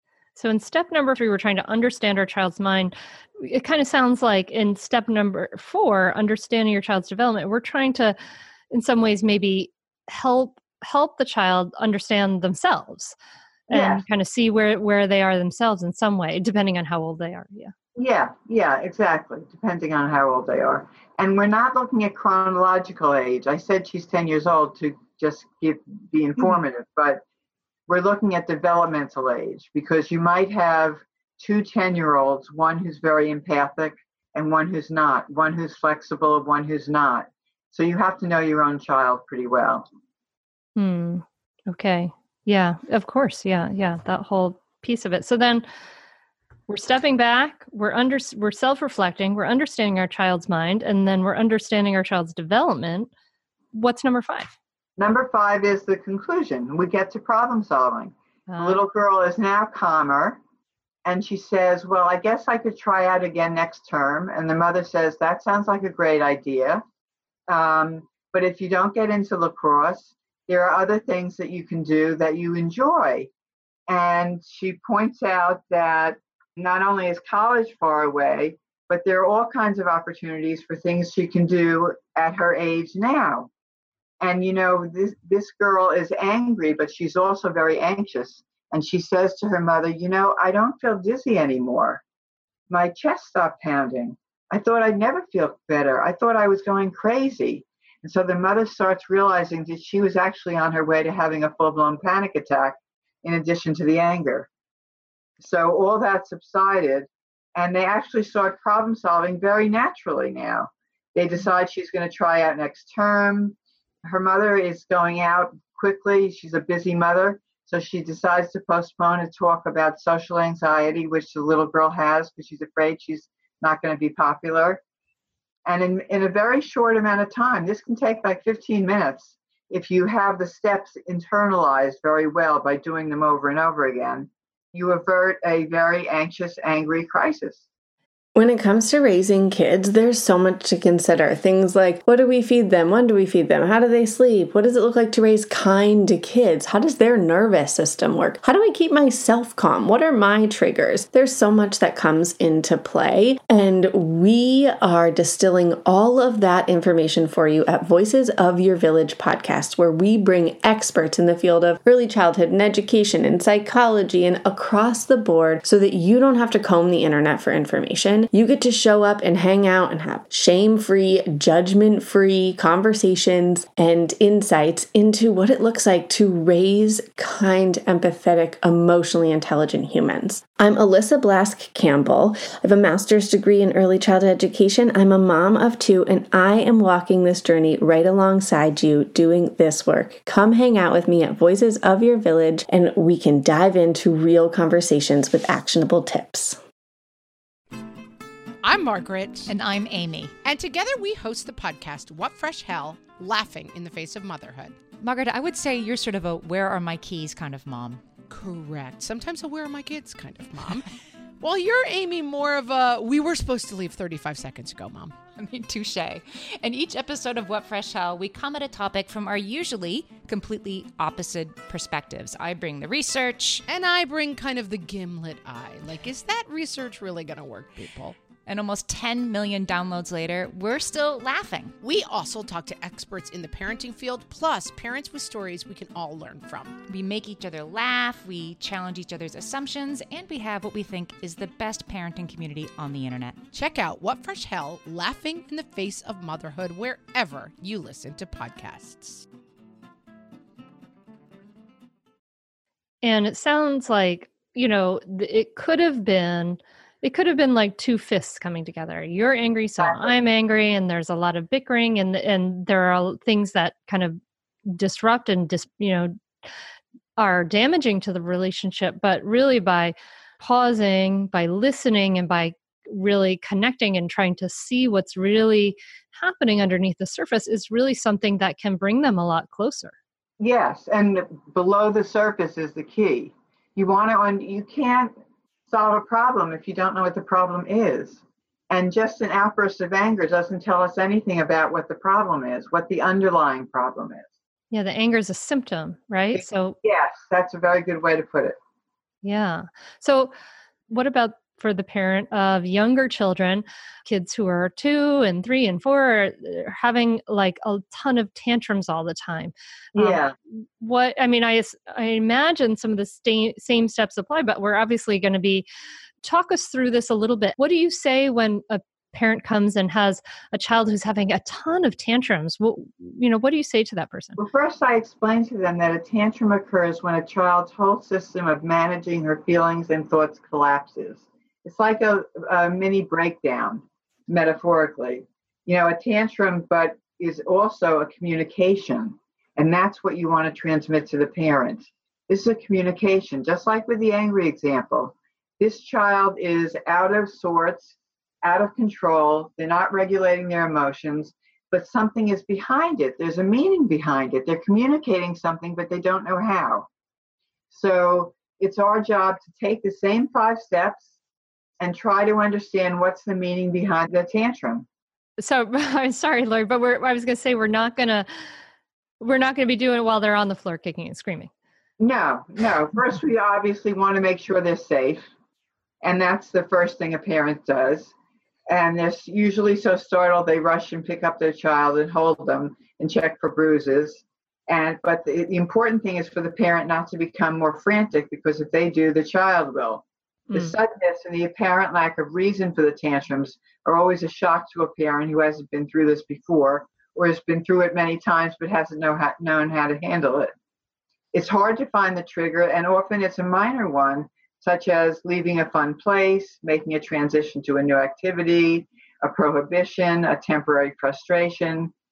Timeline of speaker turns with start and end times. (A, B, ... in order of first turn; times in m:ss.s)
0:00.4-0:08.2 A
0:08.7-0:13.2 A
0:13.7-0:17.7 A
0:13.7-0:14.0 B
0:18.0-0:27.2 B
0:27.9-0:39.9 B
0:40.8-0:45.7 A
0:46.7-0:53.1 A
0:53.7-0:54.6 A
0:55.0-1:00.4 B
0:58.5-0:58.8 A
1:01.0-1:06.8 B
1:07.5-1:13.3 B
1:13.9-1:23.5 B
1:24.2-1:32.0 B
1:32.7-1:44.5 B
1:45.4-2:04.8 B
2:05.6-2:17.6 B
2:18.4-3:16.6 C
3:18.6-3:19.5 D
3:19.5-3:20.3 E
3:20.4-3:24.8 D
3:25.0-3:28.1 E
3:28.3-3:30.9 D
3:31.4-3:35.2 D
3:35.4-3:43.6 E
3:43.7-3:48.2 D
3:48.5-3:51.8 E
3:51.8-3:56.8 D
3:56.9-4:03.4 E
4:03.5-4:09.3 D
4:13.0-4:26.2 A
4:19.8-4:20.1 B
4:27.2-4:40.0 A
4:40.4-4:45.1 B
4:45.7-4:54.3 B
4:54.7-4:56.8 A
4:56.3-4:58.6 B
4:59.2-5:00.3 A
5:00.9-5:15.6 A
5:10.0-5:10.4 B
5:16.2-5:24.4 A
5:24.4-5:56.9 B
5:57.7-6:01.1 B
6:01.8-6:04.9 B
6:05.4-6:08.3 A
6:09.2-6:11.5 A
6:12.0-6:15.3 B
6:16.0-6:18.1 B
6:18.7-6:40.5 B
6:30.5-6:30.8 A
6:41.3-6:51.9 B